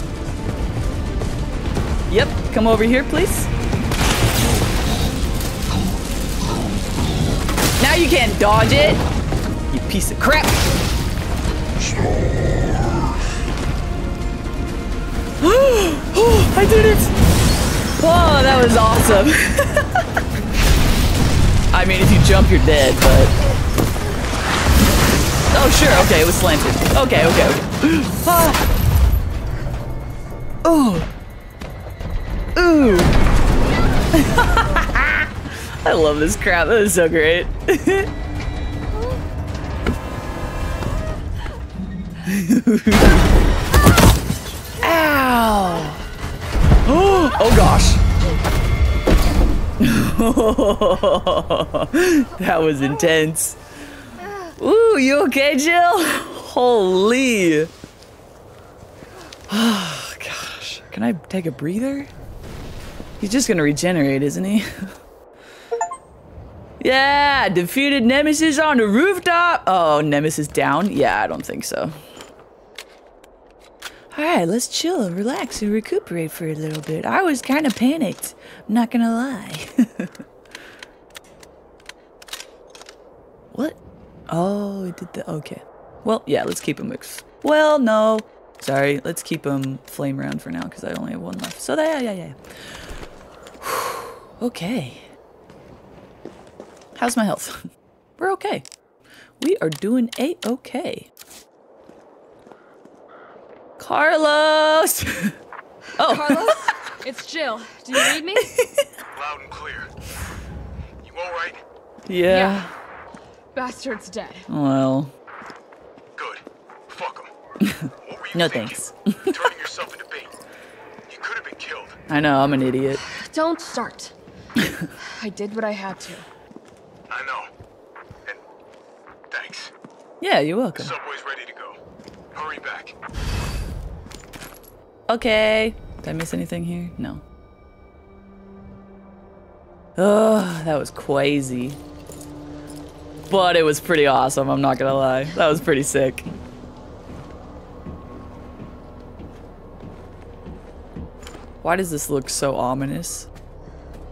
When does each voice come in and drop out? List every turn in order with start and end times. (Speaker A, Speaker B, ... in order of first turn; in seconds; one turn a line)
Speaker A: 2.1-3.5
Speaker A: 7.8-9.0
Speaker A: 9.7-10.6
Speaker A: 15.4-17.1
Speaker A: 18.0-20.0
Speaker A: 21.7-23.3
Speaker A: 25.5-28.6
Speaker A: 30.6-31.1
Speaker A: 32.5-33.1
Speaker A: 34.1-38.1
Speaker A: 42.2-43.2
Speaker A: 44.8-46.0
Speaker A: 46.9-48.0
Speaker A: 49.8-53.6
Speaker A: 54.5-57.7
Speaker A: 59.5-62.1
Speaker A: 63.2-64.9
Speaker A: 66.8-71.9
Speaker A: 74.1-80.1
Speaker A: 84.3-92.8
Speaker A: 93.6-95.1
Speaker A: 97.0-97.6
Speaker A: 98.2-98.7
Speaker A: 99.4-101.1
Speaker A: 103.8-105.3
Speaker A: 106.0-106.7
Speaker B: 106.0-108.5
Speaker A: 108.0-108.8
Speaker C: 109.1-109.9
Speaker C: 111.0-111.6
Speaker A: 112.1-112.7
Speaker B: 112.3-112.7
Speaker B: 113.5-114.5
Speaker A: 114.5-115.1
Speaker C: 116.2-117.3
Speaker A: 117.6-119.4
Speaker C: 118.0-120.3
Speaker C: 121.1-122.0
Speaker A: 122.1-123.0
Speaker B: 123.0-124.1
Speaker A: 124.6-124.9
Speaker B: 125.0-126.2
Speaker C: 127.1-127.5
Speaker C: 129.3-129.7
Speaker A: 130.2-130.9
Speaker C: 130.8-131.8
Speaker C: 132.3-132.9
Speaker A: 135.1-137.2
Speaker A: 140.0-141.8
Speaker A: 143.3-146.3
Speaker A: 151.6-153.3